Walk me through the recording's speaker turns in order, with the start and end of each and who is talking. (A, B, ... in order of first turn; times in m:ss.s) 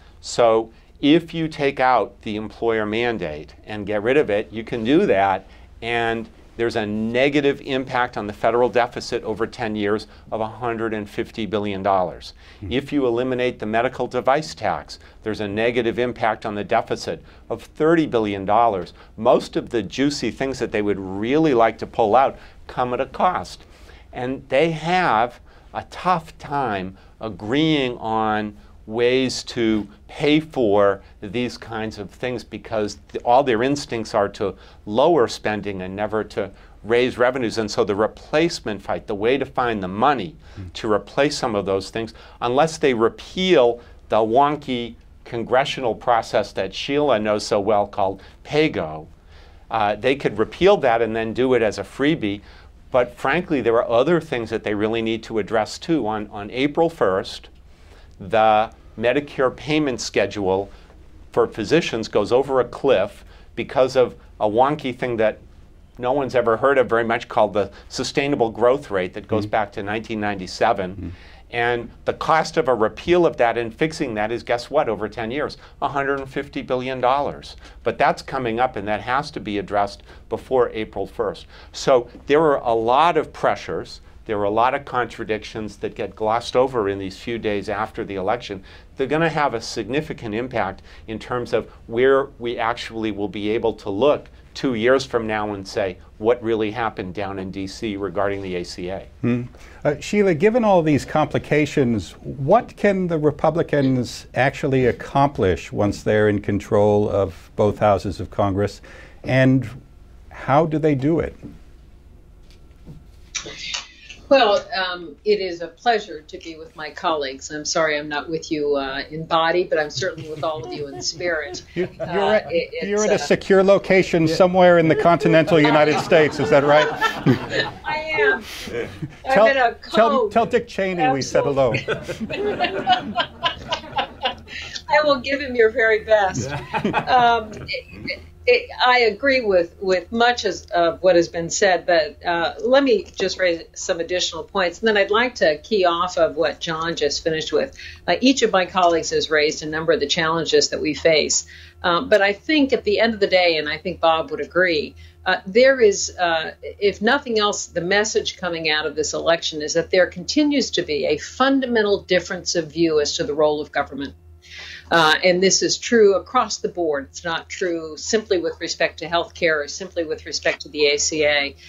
0:00.2-0:49.1 A
0:49.7-0:57.5 A
0:58.2-1:00.7 A
1:01.3-1:05.4 A
1:06.0-1:39.1 A
1:39.2-1:49.8 B
1:50.3-1:51.4 B
1:54.3-2:03.3 C
2:01.8-2:07.5 B
2:05.7-2:08.5 C
2:09.2-2:14.3 C
2:09.3-2:12.0 B
2:14.9-2:44.1 C
2:44.9-2:51.5 C